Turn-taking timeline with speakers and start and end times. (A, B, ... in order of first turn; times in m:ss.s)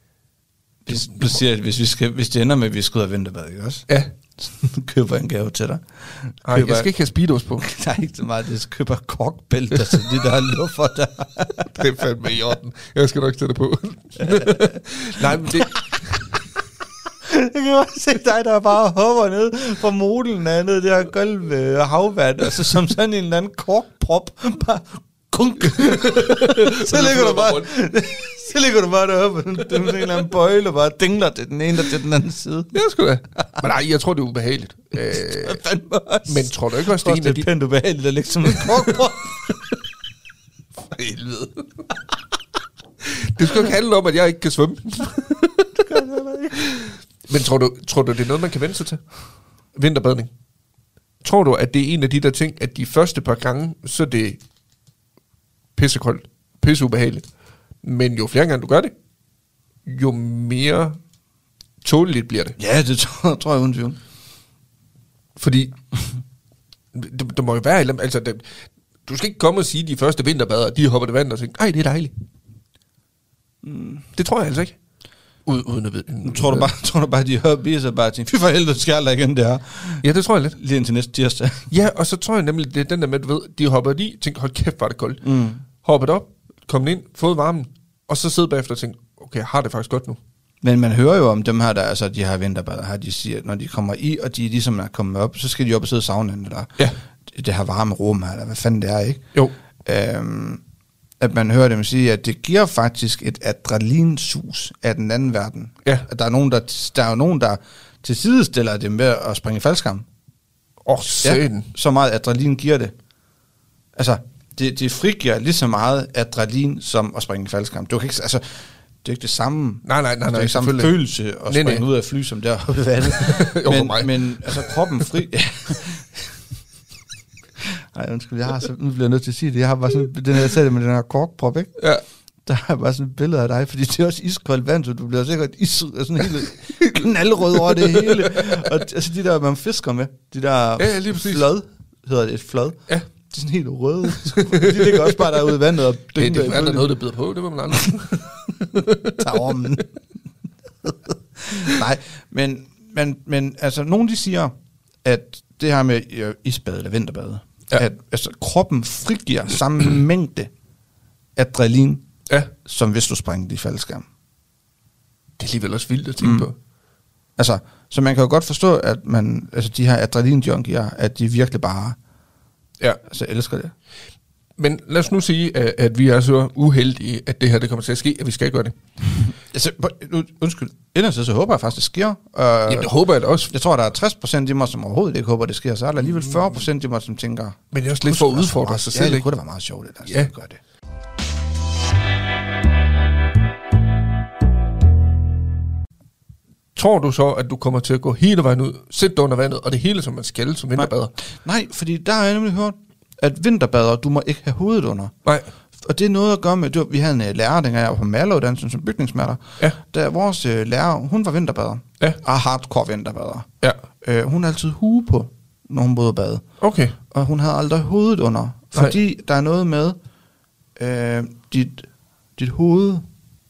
0:00.9-0:03.8 A
0:00.9-0:01.4 B
0:04.4-0:06.9 A
0:06.4-0:07.6 B
0:07.6-0:11.6 A
0:11.7-0:15.7 B
0:17.3-0:32.7 A
0:25.6-0:27.7 B
0:32.7-0:35.6 B
0:35.4-0:39.4 A
0:36.3-0:37.5 B
0:38.5-0:39.0 B
0:40.9-0:41.6 B
0:43.2-0:46.0 B
0:45.8-0:46.5 A
0:46.5-0:49.0 B
0:49.7-0:50.3 B
0:51.2-0:54.4 B
0:55.8-0:57.2 B
0:57.8-0:58.9 B
0:59.8-1:01.0 B
1:01.8-1:02.6 B
1:02.6-1:04.0 A
1:05.4-1:05.7 B
1:06.9-1:08.5 B
1:09.0-1:12.1 B
1:13.6-1:14.0 A
1:14.1-1:14.7 B
1:15.4-1:16.7 B
1:16.2-1:20.0 A
1:20.0-1:20.6 B
1:20.6-1:21.6 A
1:21.7-1:30.2 B
1:25.2-1:25.6 A
1:30.6-1:36.7 A
1:37.3-1:39.2 A
1:39.8-1:40.6 A
1:41.2-1:50.0 A
1:50.8-1:51.7 B
1:51.2-1:52.9 A
1:54.0-1:58.4 A
1:59.0-2:06.3 A
1:59.8-2:01.8 B
2:03.0-2:04.7 B
2:07.9-2:11.7 A
2:11.8-2:12.0 B
2:12.4-2:26.9 A
2:16.8-2:18.7 B
2:20.8-2:21.5 B
2:24.1-2:25.6 B
2:26.1-2:29.6 B
2:29.2-2:29.8 A
2:31.4-2:34.5 A
2:35.0-2:40.5 A
2:41.4-2:42.0 A
2:42.3-2:42.5 B
2:42.6-2:44.0 A
2:45.4-2:46.5 B
2:46.2-2:46.5 A
2:47.4-2:52.0 A
2:53.0-2:53.7 A
2:54.6-2:58.8 B
2:59.5-3:02.9 A
3:02.7-3:03.5 B
3:03.5-3:10.6 A
3:06.1-3:06.6 B
3:07.7-3:09.2 B
3:10.0-3:10.3 B
3:16.8-3:21.1 B
3:21.4-3:25.1 A
3:25.8-3:33.5 A
3:34.0-3:36.4 A
3:36.6-3:37.0 B
3:37.1-3:40.0 A
3:40.8-3:41.8 A
3:42.4-3:43.0 A